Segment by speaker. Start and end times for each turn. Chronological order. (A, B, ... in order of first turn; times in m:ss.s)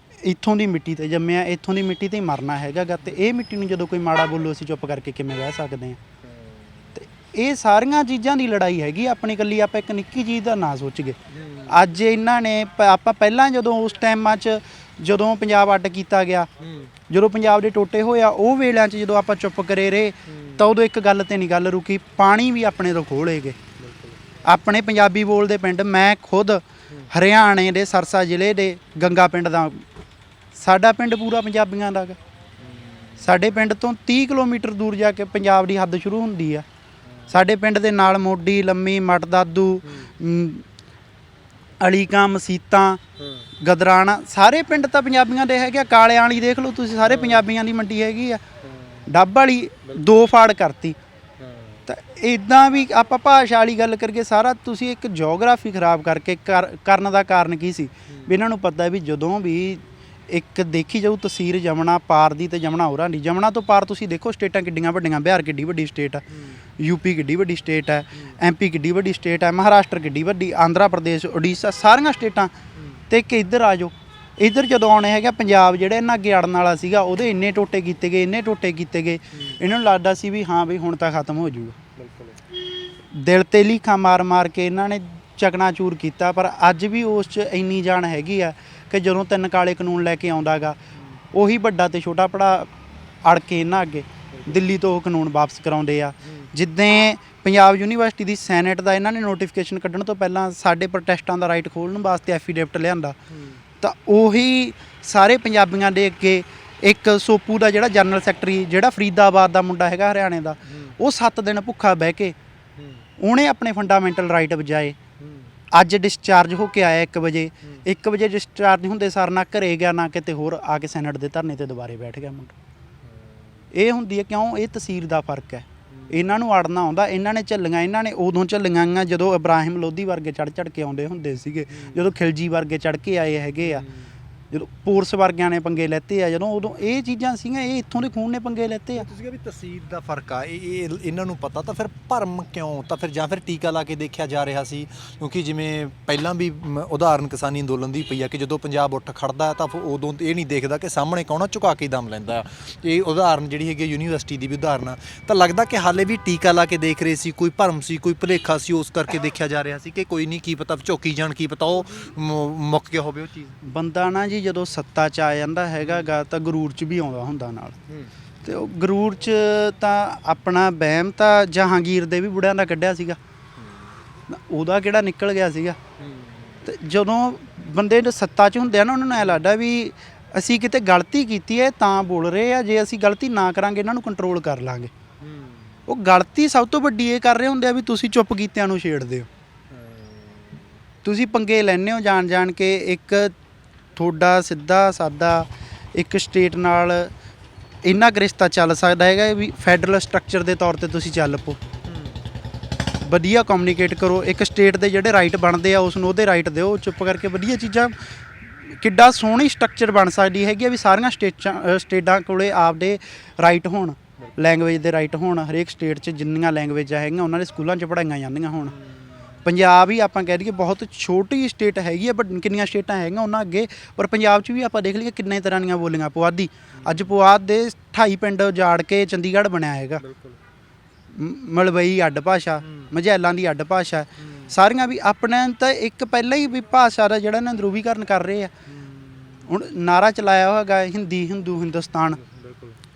0:00.2-0:06.0 A
0:06.2-0:06.9 B
0:07.0-0:11.2 A
0:11.3-0:11.8 B
0:11.7-0:16.5 A
0:16.6-0:16.9 B
0:17.1-0:23.6 A
0:20.3-0:20.6 B
0:23.8-0:24.2 B
0:24.4-0:29.8 A
0:30.6-0:32.2 A
0:32.6-0:33.3 B
0:33.2-0:36.6 A
0:37.1-0:37.3 B
0:37.3-0:40.6 A
0:39.8-0:40.1 B
0:41.8-0:43.0 A
0:43.2-0:43.5 B
0:43.6-0:48.4 A
0:47.0-0:47.4 B
0:48.6-0:49.1 B
0:49.1-0:51.0 A
0:51.4-0:51.8 B
0:51.9-1:06.2 A
0:58.1-0:58.4 B
1:06.3-1:06.6 B
1:06.8-1:12.5 A
1:12.8-1:13.0 B
1:13.1-1:21.8 A
1:19.3-1:19.6 B
1:22.0-1:22.4 B
1:23.1-1:30.8 A
1:31.3-1:32.7 A
1:33.2-1:43.2 A
1:43.3-1:43.6 B
1:43.8-1:52.3 A
1:50.7-1:50.9 B
1:52.8-1:53.0 B
1:53.2-1:55.0 A
1:55.2-1:55.5 B
1:55.7-2:02.6 A
2:03.0-2:03.5 B
2:03.7-2:13.8 A
2:05.9-2:06.3 B
2:11.7-2:12.1 B
2:13.6-2:14.1 B
2:14.5-2:19.0 A
2:19.0-2:43.6 B
2:43.6-2:47.8 A
2:45.8-2:46.1 B
2:48.4-2:53.2 A
2:53.6-2:53.9 B
2:54.3-2:55.8 A
2:56.0-2:56.7 B
2:56.6-3:04.9 A
3:05.2-3:05.8 B
3:05.9-3:09.3 A
3:09.7-3:10.6 B
3:11.0-3:13.3 A
3:14.0-3:17.1 A
3:17.8-3:21.6 A
3:21.9-3:22.2 B
3:23.0-3:27.9 A
3:28.7-3:38.7 A
3:38.6-3:39.4 B
3:39.4-3:50.0 A
3:46.8-3:47.1 B
3:50.0-3:50.4 B
3:51.1-3:58.5 A
3:52.6-3:52.9 B
3:54.2-3:54.5 B
3:58.6-3:59.5 B
3:59.4-4:02.2 A
4:02.1-4:02.8 B